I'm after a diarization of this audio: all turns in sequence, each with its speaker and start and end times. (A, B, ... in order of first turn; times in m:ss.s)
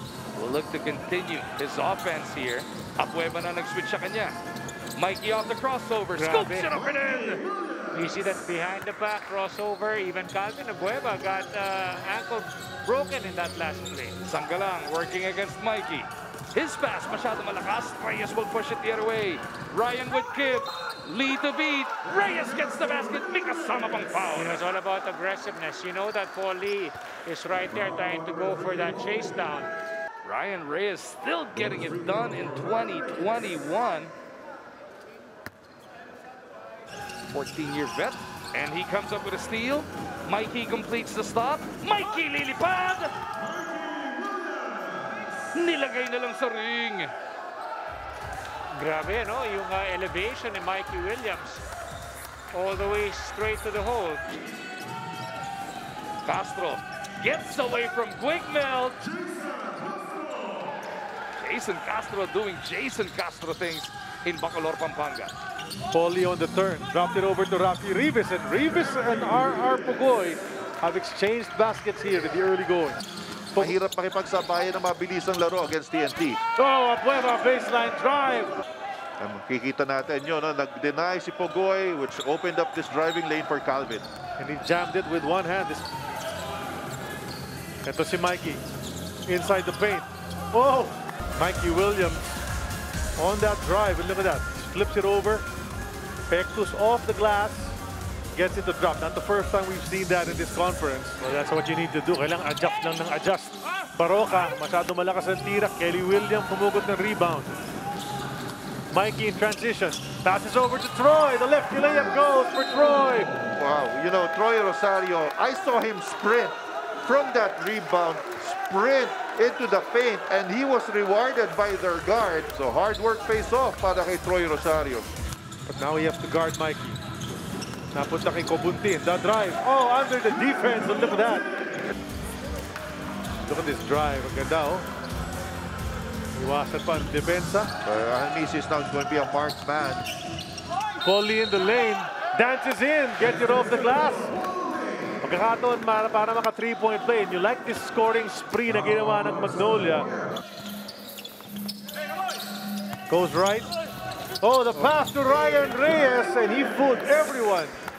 0:00.3-0:04.4 A
0:05.0-0:07.4 A
0:06.1-0:06.7 B
0:07.9-0:14.2 B
0:14.2-0:24.6 A
0:24.3-0:29.7 B
0:30.2-0:34.1 A
0:37.3-0:43.1 A
0:45.5-0:47.1 A
0:48.7-0:51.6 B
0:52.5-0:54.4 B
0:56.2-0:59.0 A
1:01.4-1:05.3 A
1:05.9-1:13.0 C
1:13.6-1:16.4 D
1:16.6-1:18.5 C
1:19.2-1:24.1 D
1:24.4-1:25.9 C
1:27.8-1:28.6 C
1:29.3-1:32.3 C
1:33.2-1:35.4 C
1:36.3-1:37.8 C
1:38.3-1:47.5 C
1:48.9-1:53.3 C
1:53.5-2:05.1 D
2:05.7-2:07.0 C
2:07.9-2:11.4 C
2:13.5-2:14.8 C
2:16.3-2:17.7 C
2:17.8-2:20.1 D
2:21.0-2:24.3 C
2:25.2-2:30.1 C
2:33.1-2:33.7 C
2:34.4-2:37.8 C